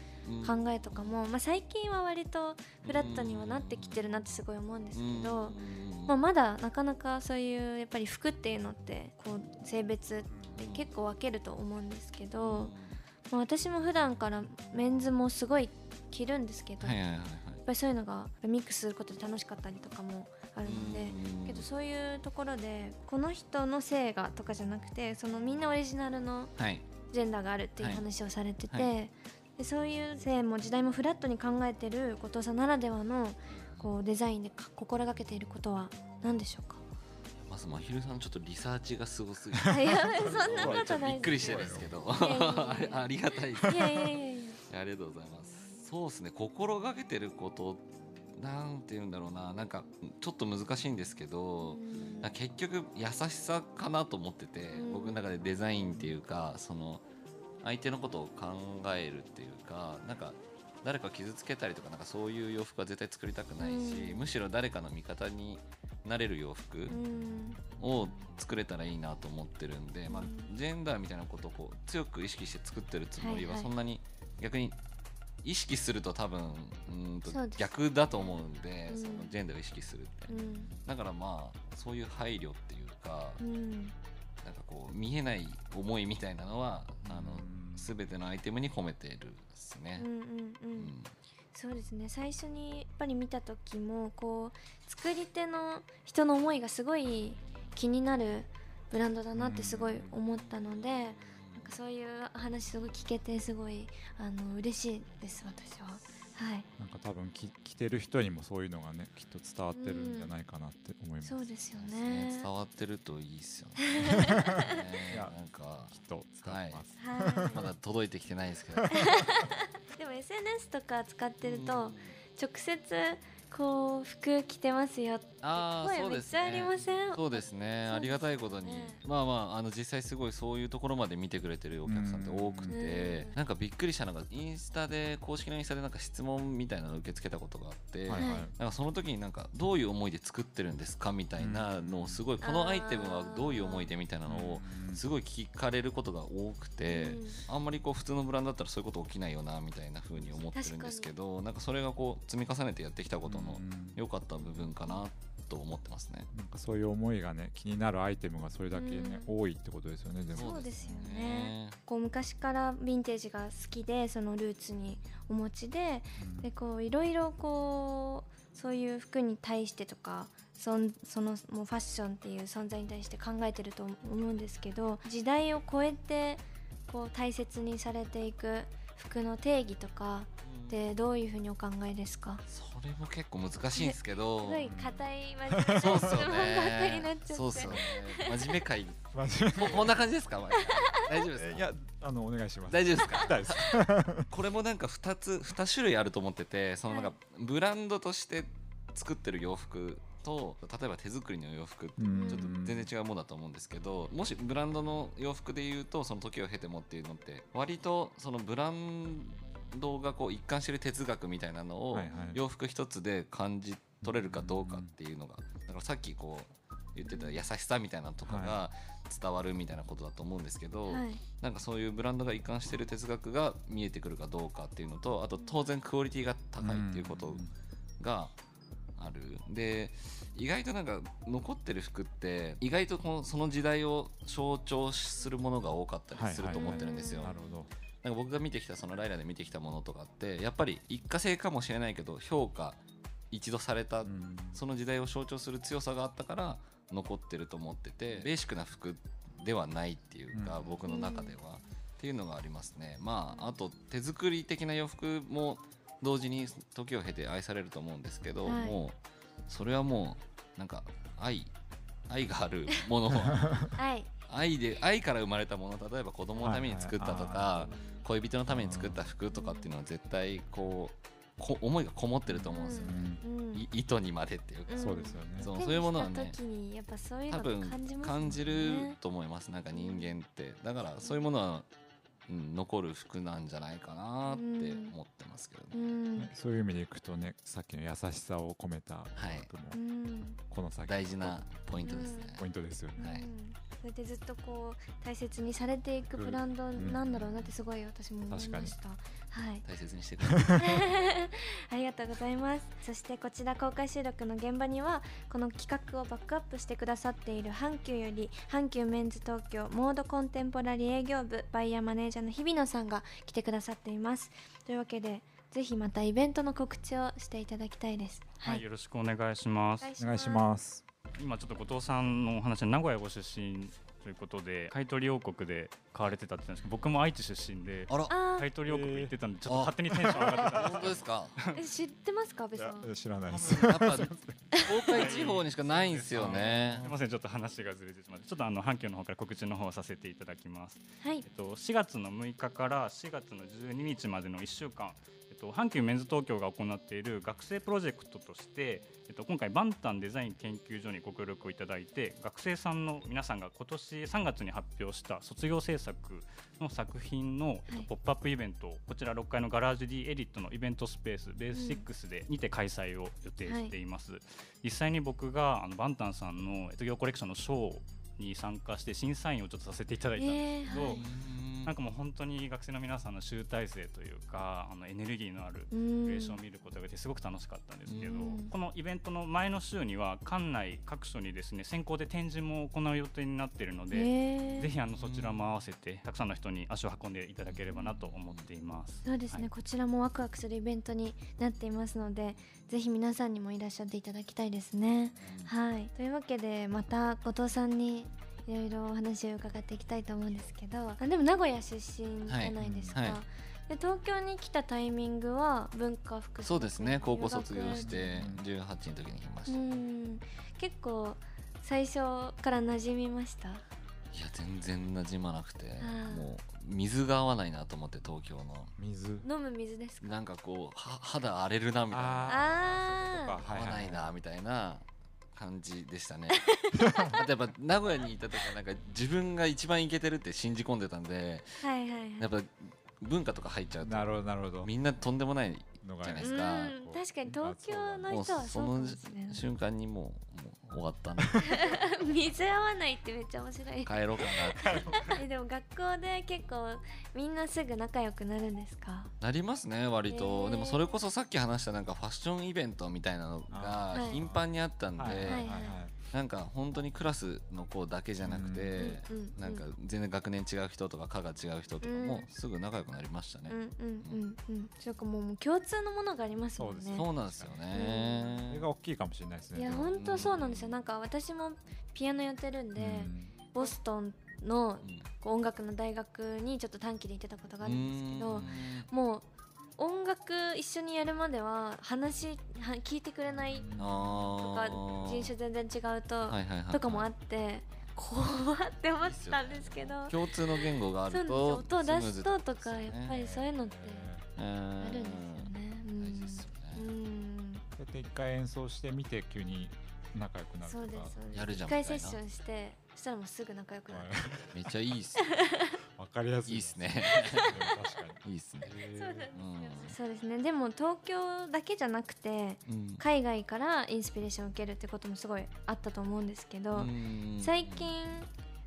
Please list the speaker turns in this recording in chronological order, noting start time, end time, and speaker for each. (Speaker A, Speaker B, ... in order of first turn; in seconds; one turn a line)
Speaker A: 0.2-1.1
Speaker B: 0.4-12.7
Speaker A: 2.8-4.0
Speaker A: 4.9-6.1
Speaker C: 10.3-10.6
Speaker A: 10.6-10.9
Speaker A: 12.4-13.0
Speaker B: 13.3-17.0
Speaker A: 16.8-17.6
Speaker B: 17.6-26.5
Speaker A: 20.6-21.6
Speaker A: 26.6-26.9
Speaker B: 27.1-36.8
Speaker A: 27.8-28.0
Speaker A: 33.5-33.9
Speaker A: 37.4-44.1
Speaker B: 39.7-43.1
Speaker C: 40.1-42.0
Speaker C: 43.5-43.9
Speaker B: 43.6-44.6
Speaker A: 44.7-57.0
Speaker B: 51.6-52.3
Speaker B: 54.7-55.2
Speaker A: 57.6-67.0
Speaker B: 63.6-64.2
Speaker B: 66.9-67.6
Speaker A: 67.8-74.8
Speaker B: 70.1-70.5
Speaker B: 73.2-73.7
Speaker A: 75.4-83.4
Speaker B: 77.3-77.7
Speaker B: 78.9-79.3
Speaker B: 80.3-80.7
Speaker B: 83.4-83.9
Speaker A: 84.4-90.1
Speaker C: 87.0-87.9
Speaker B: 90.0-90.9
Speaker A: 90.8-91.1
Speaker B: 91.5-106.7
Speaker C: 99.3-100.1
Speaker A: 100.3-101.7
Speaker C: 106.8-111.4
Speaker B: 109.7-110.3
Speaker B: 111.2-112.5
Speaker A: 111.7-115.9
Speaker B: 113.9-114.8
Speaker C: 115.1-115.3
Speaker C: 115.9-117.7
Speaker A: 116.4-116.8
Speaker B: 117.0-117.5
Speaker A: 117.5-119.2
Speaker B: 118.9-129.0
Speaker A: 121.4-122.2
Speaker A: 125.4-156.3
Speaker C: 131.8-132.8
Speaker B: 132.7-133.4
Speaker C: 138.1-138.5
Speaker B: 138.2-138.5
Speaker C: 141.4-142.2
Speaker B: 142.4-143.9
Speaker C: 144.3-145.0
Speaker B: 146.9-147.4
Speaker B: 150.5-151.1
Speaker C: 153.2-154.7
Speaker C: 156.3-161.1
Speaker B: 158.7-159.3
Speaker A: 160.3-161.8
Speaker B: 160.3-182.4
Speaker C: 166.2-166.5
Speaker A: 180.4-180.8
Speaker A: 182.5-184.7
Speaker B: 183.7-188.5
Speaker C: 184.6-186.0
Speaker A: 185.8-191.7
Speaker C: 189.1-190.0
Speaker B: 190.6-191.1
Speaker C: 191.3-194.3
Speaker A: 192.7-227.4
Speaker B: 196.9-197.1
Speaker C: 202.0-202.9
Speaker B: 202.1-202.5
Speaker C: 211.9-212.4
Speaker B: 212.1-212.4
Speaker C: 214.0-214.9
Speaker B: 217.1-217.5
Speaker C: 218.2-218.6
Speaker B: 220.9-221.2
Speaker C: 226.6-227.5
Speaker A: 228.0-228.3
Speaker A: 229.0-237.3
Speaker C: 236.1-237.7
Speaker B: 236.5-237.5
Speaker A: 238.0-242.8
Speaker A: 243.3-261.5
Speaker C: 244.0-244.6
Speaker C: 250.3-250.8
Speaker B: 250.9-251.4
Speaker B: 258.4-258.8
Speaker A: 262.1-263.7
Speaker C: 263.1-263.7
Speaker B: 263.7-264.1
Speaker A: 264.3-276.4
Speaker C: 266.3-267.7
Speaker B: 267.6-268.0
Speaker C: 268.5-269.1
Speaker B: 269.3-269.7
Speaker C: 272.3-273.2
Speaker B: 272.5-273.6
Speaker B: 274.7-279.0
Speaker C: 274.8-275.5
Speaker A: 277.3-281.7
Speaker B: 279.7-280.1
Speaker A: 282.3-285.8
Speaker B: 284.3-284.9
Speaker B: 285.7-286.3
Speaker C: 286.2-289.8
Speaker A: 289.1-289.5
Speaker B: 289.7-290.4
Speaker C: 290.4-293.1
Speaker A: 290.9-292.4
Speaker B: 291.8-292.4
Speaker B: 292.9-299.6
Speaker A: 293.0-293.3
Speaker C: 296.1-297.5
Speaker C: 298.3-298.8
Speaker A: 299.6-300.9
Speaker C: 300.3-300.6
Speaker B: 300.6-318.6
Speaker D: 318.4-319.9
Speaker B: 319.8-320.5
Speaker C: 320.0-320.8
Speaker D: 321.2-331.6
Speaker B: 328.1-328.5
Speaker C: 328.6-329.1
Speaker A: 329.4-331.4
Speaker C: 329.9-330.9
Speaker B: 331.5-332.9
Speaker C: 332.6-334.4
Speaker A: 333.3-336.9
Speaker D: 334.9-389.5
Speaker C: 336.1-336.9
Speaker B: 361.5-361.8
Speaker B: 363.4-363.7
Speaker B: 370.2-371.0
Speaker A: 370.7-371.7
Speaker B: 375.7-376.4
Speaker A: 377.9-378.4
Speaker B: 378.1-378.5
Speaker B: 383.9-384.7
Speaker A: 384.4-385.4
Speaker A: 387.5-388.5
Speaker B: 389.0-408.1
Speaker A: 395.2-395.5
Speaker A: 402.3-403.2
Speaker C: 402.6-402.9
Speaker A: 406.4-409.6
Speaker C: 407.8-408.4
Speaker B: 409.5-413.6
Speaker A: 414.1-418.7
Speaker B: 415.8-416.3
Speaker C: 418.8-419.2
Speaker B: 419.2-420.2
Speaker A: 420.0-422.4
Speaker C: 421.9-424.1
Speaker B: 422.3-423.4
Speaker A: 423.4-431.6
Speaker B: 426.4-427.1
Speaker C: 426.9-427.1
Speaker B: 431.6-432.3
Speaker A: 432.2-436.7
Speaker C: 433.8-434.7
Speaker C: 435.8-438.1
Speaker B: 436.2-439.4
Speaker A: 438.1-441.8
Speaker B: 441.4-449.1
Speaker A: 443.8-445.2
Speaker C: 444.6-445.2
Speaker A: 449.2-455.5
Speaker B: 450.1-450.8
Speaker C: 453.5-455.9
Speaker B: 453.9-454.2
Speaker B: 455.2-455.8
Speaker A: 456.1-464.2
Speaker C: 458.2-458.9
Speaker B: 458.8-459.6
Speaker B: 461.8-462.2
Speaker B: 463.5-467.0
Speaker C: 466.6-467.6
Speaker A: 466.9-468.6
Speaker B: 467.7-468.4
Speaker C: 468.5-470.3
Speaker B: 469.5-479.2
Speaker A: 469.7-470.8
Speaker C: 472.8-473.3
Speaker A: 474.8-475.1
Speaker A: 477.6-478.9
Speaker B: 479.8-483.6
Speaker C: 483.3-484.3
Speaker A: 483.8-485.3
Speaker B: 484.4-494.1
Speaker A: 486.2-487.1
Speaker A: 489.0-493.2
Speaker C: 493.1-494.3
Speaker A: 494.4-496.8
Speaker B: 494.8-497.6
Speaker C: 497.8-501.4
Speaker B: 500.6-504.1
Speaker A: 501.3-502.2
Speaker C: 503.9-504.7
Speaker A: 504.5-505.4
Speaker B: 505.2-505.8
Speaker C: 505.9-509.3
Speaker A: 506.4-507.6
Speaker B: 507.1-507.5
Speaker A: 508.2-508.7
Speaker B: 508.9-518.3
Speaker A: 509.3-509.9
Speaker A: 512.7-513.0
Speaker A: 516.7-518.0